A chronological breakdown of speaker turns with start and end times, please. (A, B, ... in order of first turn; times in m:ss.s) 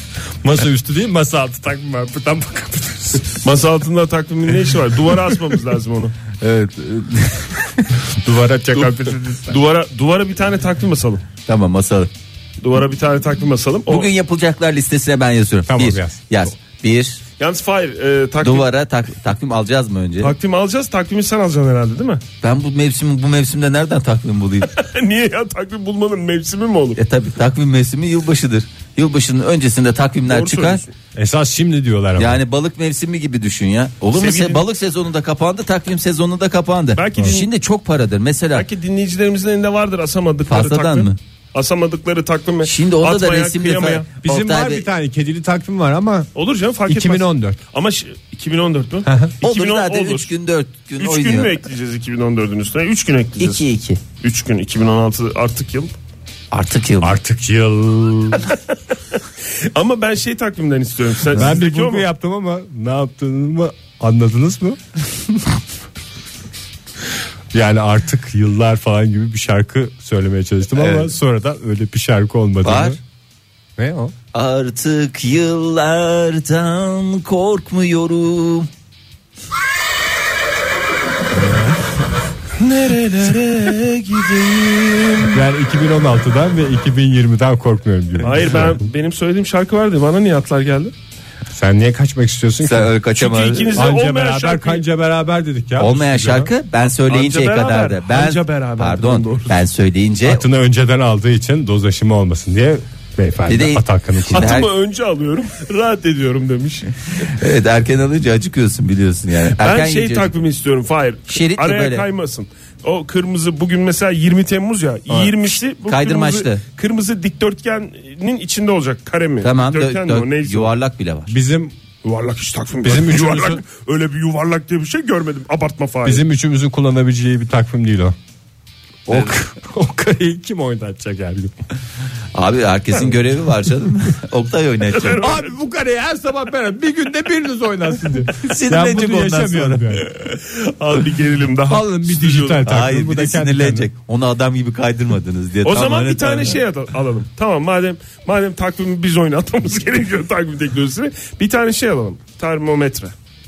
0:00.4-0:03.4 A
0:03.4-0:06.2 B
0:06.4-0:07.5 C
0:07.9-0:09.6 A
0:08.8-0:11.2 B
0:11.4-0:12.1 C
0:12.6-0:14.1 B
0:13.9-0:17.2 C
0:15.7-0:16.2 A
0:17.4-0:18.7 B
0:18.4-0:20.3 C
0:20.2-0:22.2 B
0:22.4-0:24.7 C
0:24.7-0:27.0 B
0:27.0-0:30.8 C
0:30.3-0:30.8 B
0:31.1-0:32.4 A
0:32.2-0:38.6 C
0:34.2-0:34.6 B
0:36.9-0:37.5 B
0:38.5-0:44.1 B
0:40.5-0:41.2 C
0:42.6-0:44.9 C
0:44.2-0:46.3 A
0:46.3-0:50.3 B
0:46.9-0:47.6 A
0:49.0-0:49.3 A
0:49.4-0:51.6 C
0:51.0-0:53.6 B
0:53.4-0:54.0 C
0:54.2-0:55.9 B
0:56.5-0:57.2 C
0:57.0-0:58.4 A
0:59.7-1:02.0 B
1:01.3-1:04.8 A
1:07.5-1:13.0 A
1:10.8-1:11.1 C
1:12.6-1:13.0 C
1:13.8-1:14.1 A
1:14.3-1:18.7 C
1:21.4-1:21.7 A
1:22.6-1:25.4 B
1:25.3-1:28.8 A
1:28.2-1:30.9 B
1:31.5-1:32.9 A
1:32.6-1:33.9 C
1:33.2-1:34.8 B
1:33.8-1:36.5 A
1:35.8-1:40.4 C
1:36.9-1:39.6 B
1:40.2-1:44.6 A
1:43.5-1:44.7 C
1:44.3-1:46.9 B
1:47.1-1:50.3 C
1:49.5-2:00.7 B
1:51.3-1:52.1 C
1:55.1-1:56.6 C
1:59.4-2:01.4 C
2:01.3-2:01.7 A
2:02.0-2:06.2 B
2:02.8-2:03.6 A
2:06.0-2:08.2 A
2:09.1-2:11.5 A
2:09.1-2:09.4 C
2:12.3-2:15.2 C
2:15.0-2:15.4 B
2:15.1-2:20.1 A
2:18.4-2:20.0 C
2:20.2-2:22.6 B
2:21.6-2:23.9 A
2:22.6-2:26.6 C
2:25.6-2:33.1 B